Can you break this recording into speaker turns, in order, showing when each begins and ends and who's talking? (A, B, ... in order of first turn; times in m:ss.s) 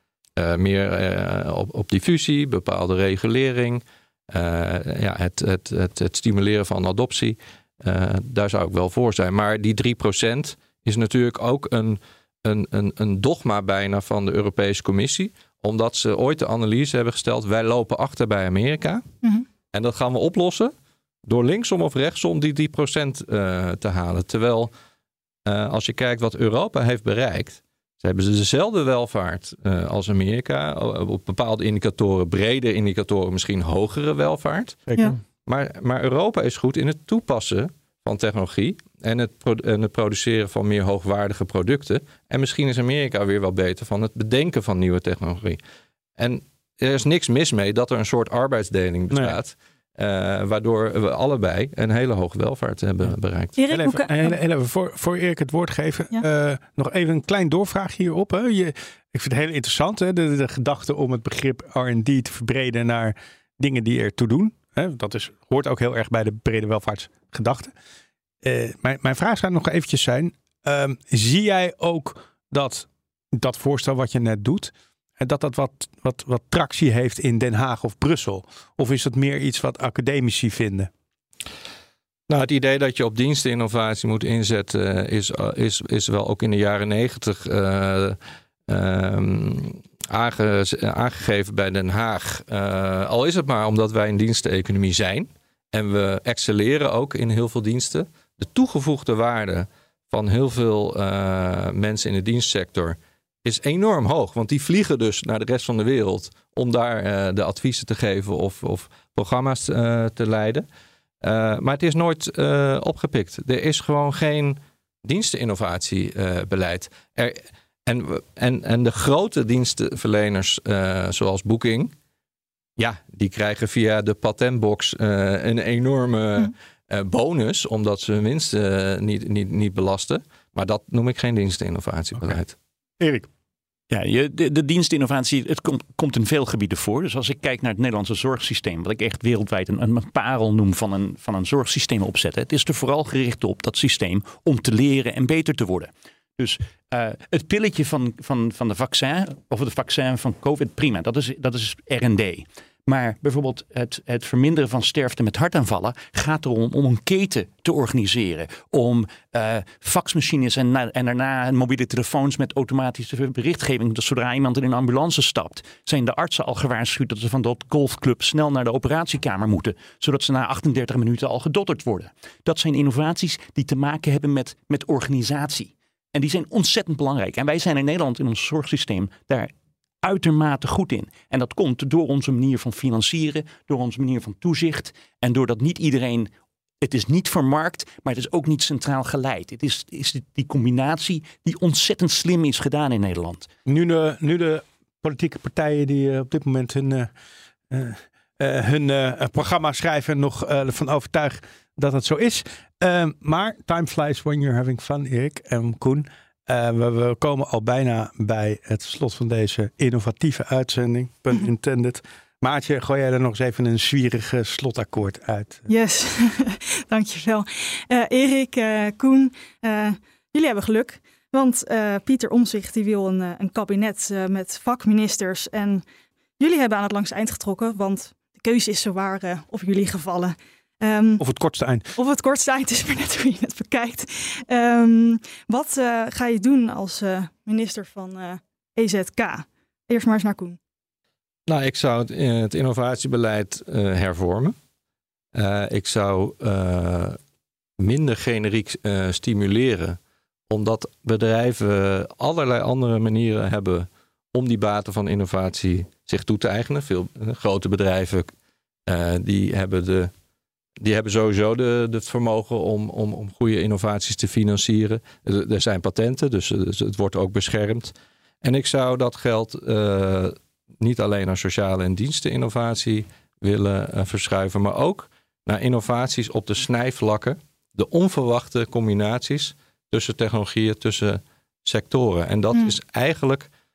0:00.4-0:19.0 A
0:19.7-0:20.7 A
0:21.2-0:24.7 A
0:25.4-0:45.6 A
0:34.9-0:35.1 B
0:46.2-0:53.5 A
0:49.1-0:49.4 B
0:53.6-0:54.4 C
0:53.7-1:07.7 B
1:08.4-1:20.9 B
1:22.3-1:28.2 A
1:28.7-1:50.6 A
1:51.2-2:01.9 A
2:02.8-2:12.6 A
2:13.0-2:13.3 B
2:13.9-2:59.5 D
3:00.0-3:13.5 D
3:13.6-3:17.1 B
3:17.7-3:35.7 B
3:35.7-3:45.8 C
3:46.4-3:51.2 C
3:51.2-3:51.9 B
3:52.0-4:00.6 C
4:01.5-4:04.6 A
4:05.3-4:07.2 A
4:07.8-4:10.0 A
4:10.5-4:18.3 A
4:18.9-4:20.1 A
4:20.8-4:43.5 A